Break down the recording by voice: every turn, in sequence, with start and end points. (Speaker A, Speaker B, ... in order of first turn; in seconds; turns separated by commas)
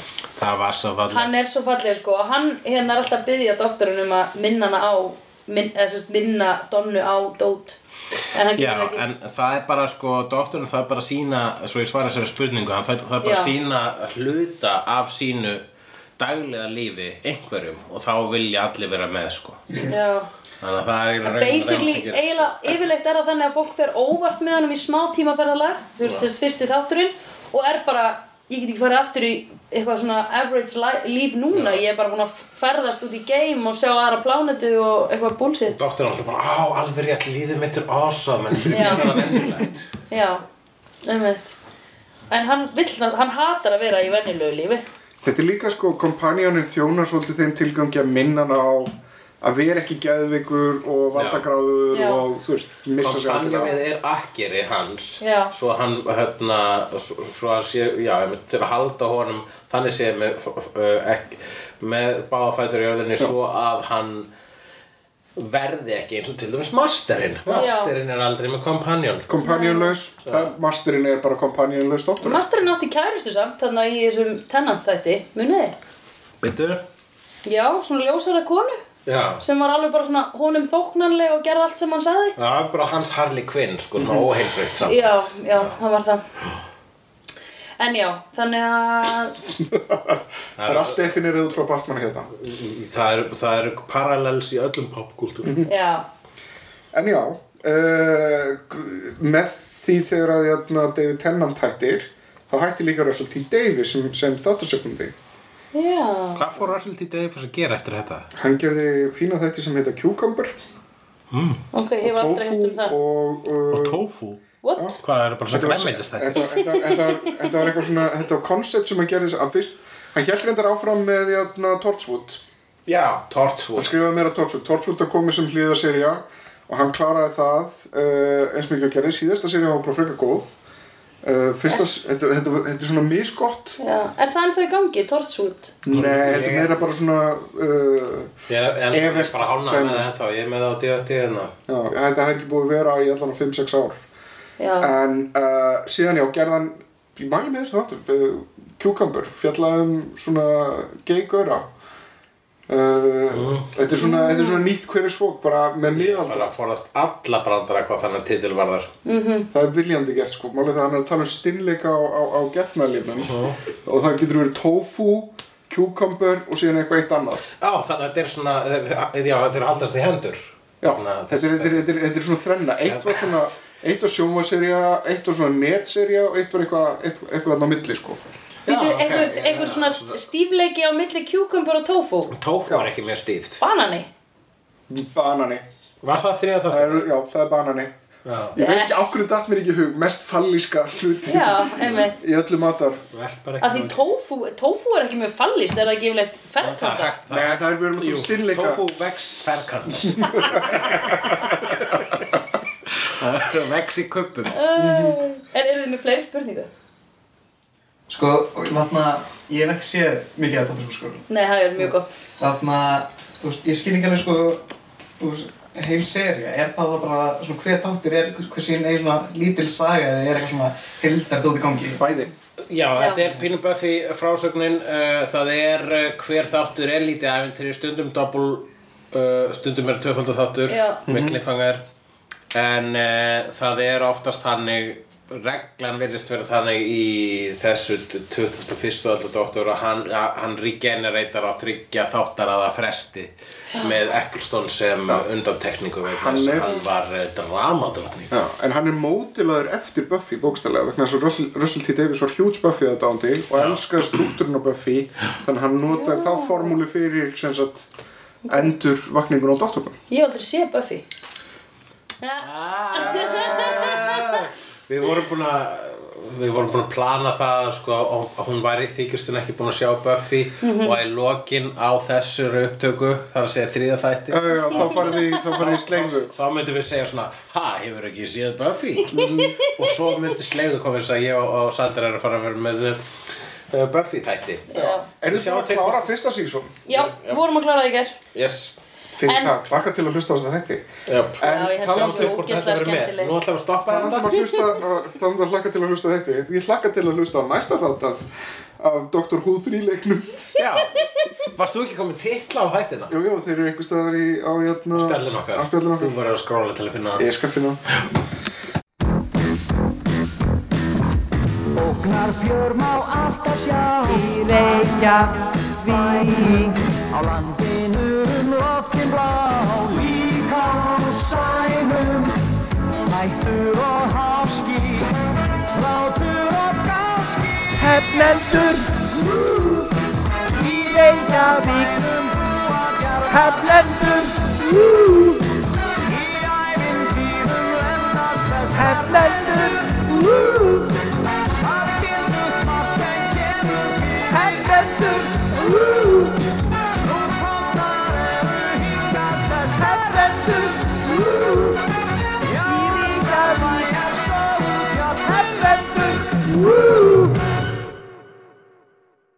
Speaker A: 0.4-1.3, Speaker B: 1.1-7.8, Speaker B: 8.3-9.0, Speaker A: 8.6-15.6, Speaker B: 13.2-13.5, Speaker A: 16.2-19.8, Speaker B: 19.9-20.3, Speaker A: 20.6-22.8, Speaker B: 21.2-35.8, Speaker A: 31.5-31.8, Speaker A: 35.7-39.8, Speaker B: 38.7-39.4, Speaker B: 40.1-40.4, Speaker B: 41.0-41.5, Speaker B: 42.3-44.8, Speaker C: 45.2-53.7, Speaker A: 51.1-51.4, Speaker B: 51.9-52.2, Speaker A: 53.0-64.3, Speaker B: 55.2-55.5, Speaker A: 65.4-69.3, Speaker B: 67.5-67.9, Speaker C: 69.3-72.4, Speaker B: 69.4-70.0, Speaker B: 72.2-75.8, Speaker A: 76.4-76.8, Speaker B: 77.5-78.8, Speaker A: 79.0-79.4, Speaker B: 79.4-82.3, Speaker A: 82.4-85.7, Speaker C: 84.0-84.3, Speaker B: 84.9-86.2, Speaker B: 87.8-89.4, Speaker C: 89.7-92.3, Speaker A: 90.6-91.1, Speaker A: 92.4-95.6, Speaker B: 95.7-96.1, Speaker C: 96.9-105.1, Speaker B: 105.7-106.4, Speaker A: 106.4-108.3, Speaker C: 108.3-110.5, Speaker A: 111.3-111.6, Speaker B: 111.7-112.9, Speaker C: 112.0-114.0, Speaker A: 113.7-114.4, Speaker B: 114.6-115.0, Speaker A: 115.0-116.5, Speaker C: 115.5-122.4, Speaker B: 116.4-117.7, Speaker A: 122.9-123.9, Speaker C: 123.8-130.6, Speaker C: 131.2-133.8, Speaker B: 133.8-135.7, Speaker C: 135.8-138.3, Speaker A: 135.9-136.8, Speaker A: 138.5-141.5, Speaker C: 138.9-140.1, Speaker C: 141.7-144.0, Speaker B: 144.6-144.9, Speaker C: 144.8-151.7, Speaker C: 152.7-156.5, Speaker A: 153.3-153.7, Speaker B: 153.9-154.6, Speaker A: 155.9-158.9, Speaker B: 159.1-159.5, Speaker C: 159.5-167.4, Speaker A: 163.2-163.6, Speaker A: 167.6-171.9, Speaker C: 170.8-178.2, Speaker A: 172.8-173.3, Speaker A: 178.7-180.2, Speaker B: 178.7-182.3, Speaker A: 182.3-183.6, Speaker C: 182.7-182.9, Speaker B: 183.6-184.1, Speaker C: 184.9-185.7, Speaker A: 186.0-187.1, Speaker C: 186.7-187.9, Speaker A: 188.2-188.6, Speaker C: 188.6-193.0, Speaker B: 188.6-189.2, Speaker B: 191.3-192.2, Speaker A: 193.1-194.0, Speaker B: 193.6-197.1, Speaker A: 196.6-202.2, Speaker C: 197.3-198.9, Speaker C: 200.3-201.3, Speaker A: 203.0-204.6, Speaker B: 204.5-206.7, Speaker C: 204.8-205.2, Speaker D: 208.1-211.2, Speaker B: 211.3-212.2, Speaker D: 212.4-214.6, Speaker D: 215.2-222.0, Speaker C: 221.9-222.3, Speaker A: 222.7-231.8, Speaker B: 223.0-223.2, Speaker B: 230.7-231.0, Speaker C: 231.1-231.4, Speaker A: 232.5-248.4, Speaker C: 246.1-246.8, Speaker C: 248.3-257.9, Speaker A: 253.5-254.3, Speaker B: 255.9-256.7, Speaker B: 258.4-258.7, Speaker C: 258.5-259.9, Speaker B: 260.1-261.1, Speaker B: 262.2-264.4, Speaker A: 262.4-283.0, Speaker C: 263.2-264.1, Speaker B: 270.6-271.0, Speaker C: 274.3-276.3, Speaker B: 274.7-275.4, Speaker B: 279.1-279.9, Speaker C: 279.1-279.5, Speaker A: 283.7-284.7, Speaker B: 284.7-285.1, Speaker C: 284.7-286.7, Speaker A: 285.3-286.1, Speaker B: 286.9-288.1, Speaker A: 286.9-287.4, Speaker A: 288.3-288.7, Speaker C: 289.1-292.4, Speaker B: 289.3-289.6, Speaker A: 291.1-294.4, Speaker B: 291.4-293.4, Speaker C: 293.8-298.3, Speaker B: 294.3-294.7, Speaker C: 298.8-300.5, Speaker A: 300.6-303.1, Speaker C: 303.1-306.1, Speaker A: 304.9-307.3, Speaker C: 307.2-307.8, Speaker E: 311.8-322.4, Speaker E: 323.1-325.1, Speaker E: 325.7-329.9, Speaker E: 330.6-335.6, Speaker E: 336.1-341.0, Speaker E: 341.6-357.4